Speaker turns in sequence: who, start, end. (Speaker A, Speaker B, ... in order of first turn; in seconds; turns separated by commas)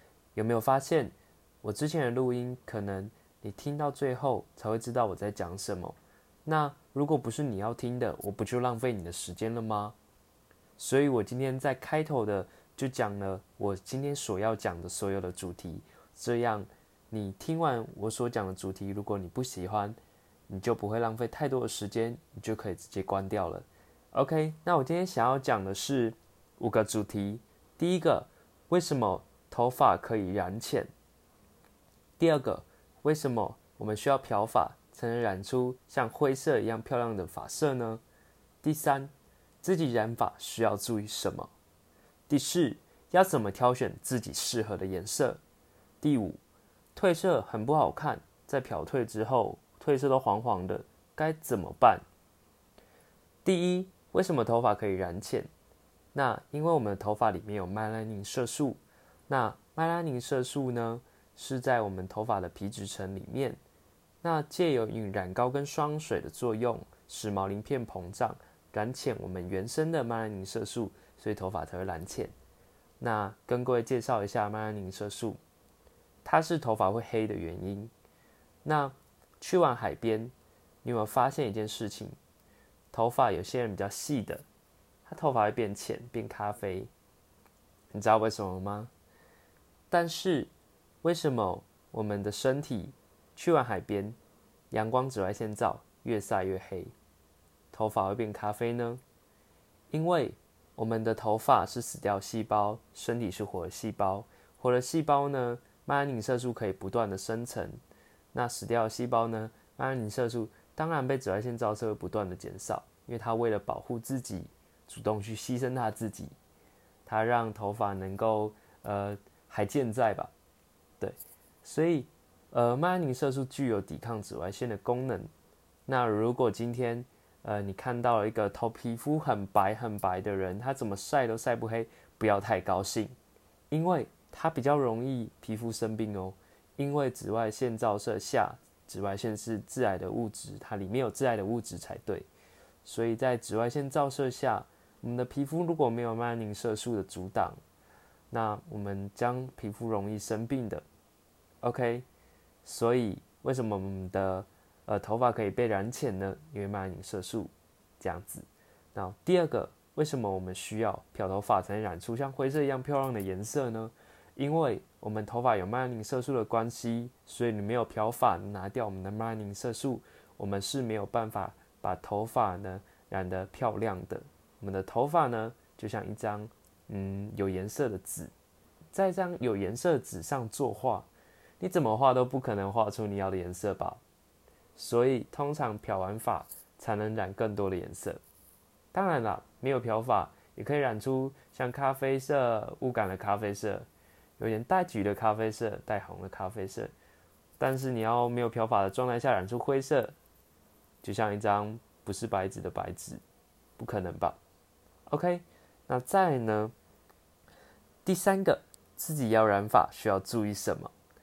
Speaker A: 0.3-9.9, Speaker A: 10.8-20.0, Speaker A: 20.5-30.9, Speaker A: 32.2-38.0, Speaker A: 38.6-39.1, Speaker A: 39.6-41.5, Speaker A: 42.3-45.4, Speaker A: 46.0-46.4, Speaker A: 46.9-52.0, Speaker A: 53.4-55.5, Speaker A: 56.1-63.6, Speaker A: 64.2-72.3, Speaker A: 73.0-75.4, Speaker A: 76.2-77.9, Speaker A: 78.6-80.3, Speaker A: 80.8-82.1, Speaker A: 82.9-84.4, Speaker A: 85.0-86.9, Speaker A: 87.9-88.9, Speaker A: 89.9-90.5, Speaker A: 91.0-94.2, Speaker A: 94.7-96.9, Speaker A: 97.7-99.0, Speaker A: 99.9-107.8, Speaker A: 108.3-116.3, Speaker A: 117.0-120.3, Speaker A: 121.0-125.3, Speaker A: 125.9-133.1, Speaker A: 133.7-142.3, Speaker A: 142.8-147.6, Speaker A: 148.3-150.8, Speaker A: 151.6-152.0, Speaker A: 152.6-178.3, Speaker A: 178.9-181.1, Speaker A: 181.6-184.0, Speaker A: 184.7-188.2, Speaker A: 188.9-193.8, Speaker A: 194.4-196.9, Speaker A: 197.6-200.1, Speaker A: 201.0-203.2, Speaker A: 203.8-204.4, Speaker A: 205.1-206.7, Speaker A: 208.0-210.9